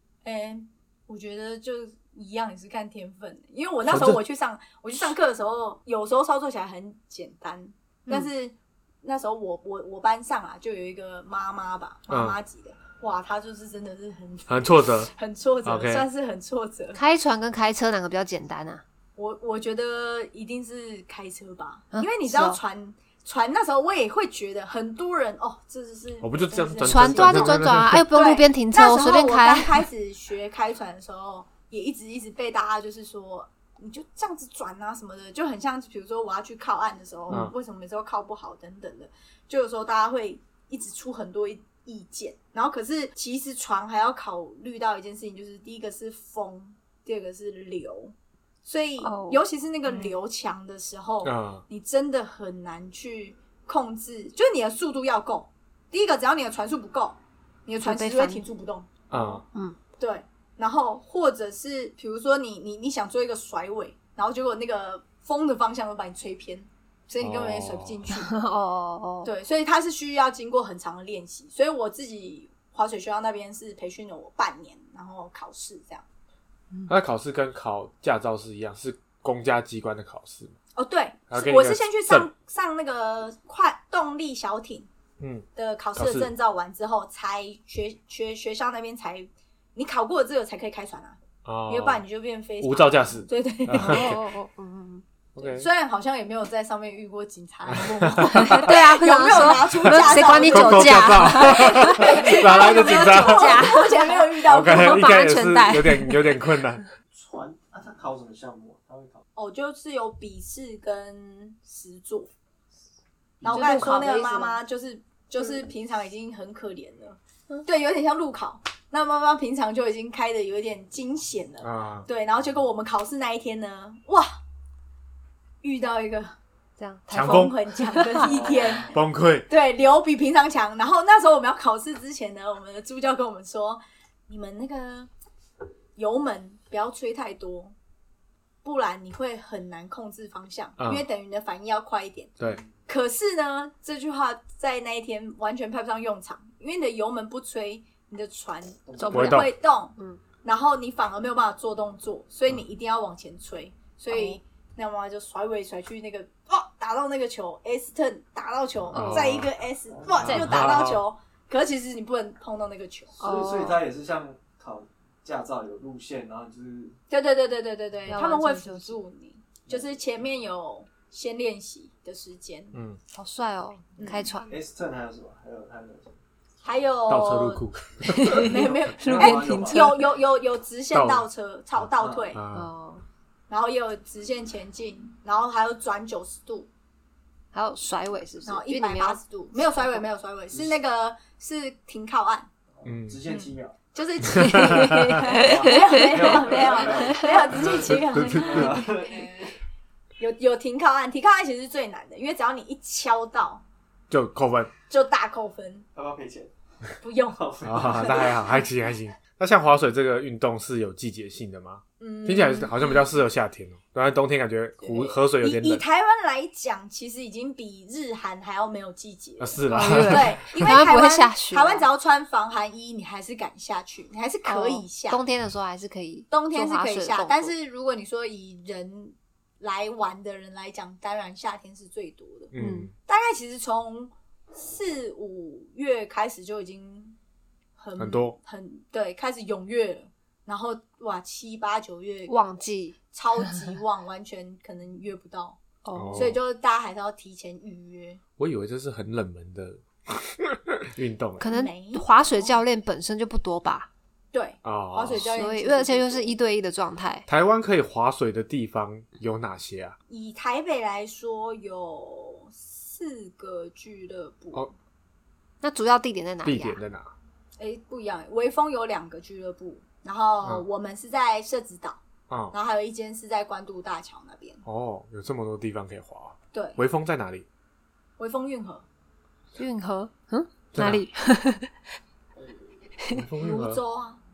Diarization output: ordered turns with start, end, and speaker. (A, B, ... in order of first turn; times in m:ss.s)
0:00.2-0:17.0 A
0:03.9-0:04.2 B
0:12.1-0:12.4 B
0:14.5-0:15.1 B
0:15.6-0:16.1 B
0:16.9-0:18.8 C
0:19.2-0:59.0 A
0:21.9-0:22.6 C
0:26.2-0:28.1 B
0:26.8-0:29.8 C
0:49.0-0:50.1 C
0:51.2-0:51.6 B
0:57.8-0:58.4 C
0:59.1-0:59.4 B
0:59.1-0:59.8 C
1:00.0-1:08.3 A
1:07.2-1:08.0 B
1:08.1-1:09.3 C
1:09.2-1:16.0 A
1:16.9-1:20.5 B
1:20.7-1:24.9 A
1:21.3-1:22.3 B
1:25.2-1:26.3 B
1:25.6-1:34.1 A
1:31.4-1:32.0 B
1:32.6-1:34.2 B
1:33.8-1:35.0 C
1:35.4-1:35.7 B
1:35.5-1:45.1 A
1:37.7-1:38.7 B
1:38.3-1:46.4 C
1:39.8-1:43.8 B
1:44.4-1:46.8 B
1:47.1-1:49.2 D
1:49.4-1:52.3 A
1:53.4-2:04.3 A
1:53.4-1:54.6 C
2:01.6-2:02.1 B
2:05.6-2:06.3 A
2:06.8-2:08.3 C
2:07.1-2:07.5 B
2:07.1-2:09.0 A
2:08.2-2:09.0 D
2:08.9-2:09.5 B
2:09.5-2:15.1 A
2:16.0-2:17.7 A
2:18.6-2:43.2 A
2:20.8-2:21.0 B
2:28.9-2:29.3 D
2:29.0-2:30.2 C
2:29.1-2:29.5 B
2:34.1-2:34.4 C
2:38.9-2:39.5 B
2:38.9-2:39.4 C
2:39.9-2:40.4 D
2:40.2-2:40.6 C
2:40.2-2:41.0 B
2:43.2-2:43.8 C
2:43.2-2:47.0 D
2:47.1-2:52.7 A
2:48.1-2:49.0 C
2:52.7-2:53.0 B
2:53.1-2:54.5 C
2:54.0-2:54.3 A
2:54.5-2:56.2 D
2:56.6-2:57.6 A
2:57.1-2:58.7 B
2:58.1-3:00.1 C
2:58.3-3:02.4 A
2:58.6-2:59.9 D
3:00.9-3:01.3 B
3:01.9-3:02.4 D
3:02.3-3:02.7 B
3:02.5-3:03.0 C
3:03.5-3:06.7 A
3:07.5-3:09.2 C
3:08.4-3:12.5 A
3:10.5-3:10.8 D
3:12.8-3:13.8 D
3:12.8-3:13.2 B
3:13.3-3:19.0 A
3:14.2-3:15.2 B
3:14.4-3:17.4 C
3:15.2-3:19.5 D
3:17.6-3:18.8 B
3:20.2-3:23.6 A
3:24.1-3:24.7 B
3:24.9-3:25.9 A
3:25.9-3:28.4 D
3:27.0-3:28.3 A
3:27.6-3:35.8 B
3:32.0-3:32.9 A
3:34.8-3:45.2 A
3:39.4-3:40.4 B
3:39.7-3:41.9 C
3:44.4-3:47.5 C
3:46.3-3:52.5 A
3:52.5-3:52.9 B
3:52.6-3:52.9 C
3:53.1-3:57.2 A
3:57.8-4:02.4 A
3:58.0-3:58.4 B
4:02.3-4:03.0 C
4:03.1-4:05.6 A
4:05.8-4:06.3 C
4:05.9-4:06.4 B
4:06.1-4:08.2 A
4:08.4-4:11.5 B
4:11.4-4:13.9 C
4:11.4-4:12.6 A
4:14.3-4:16.3 A
4:14.6-4:15.3 B
4:15.2-4:17.3 C
4:17.3-4:20.0 B
4:20.1-4:24.7 A
4:25.6-4:26.8 C
4:26.4-4:27.1 B
4:27.6-4:32.0 A
4:32.3-4:32.5 B
4:32.5-4:34.6 A
4:34.6-4:37.4 B
4:36.5-4:36.8 A
4:38.2-4:38.8 A
4:39.6-4:41.8 C
4:40.7-4:41.0 B
4:43.1-4:43.8 B
4:43.4-4:44.2 A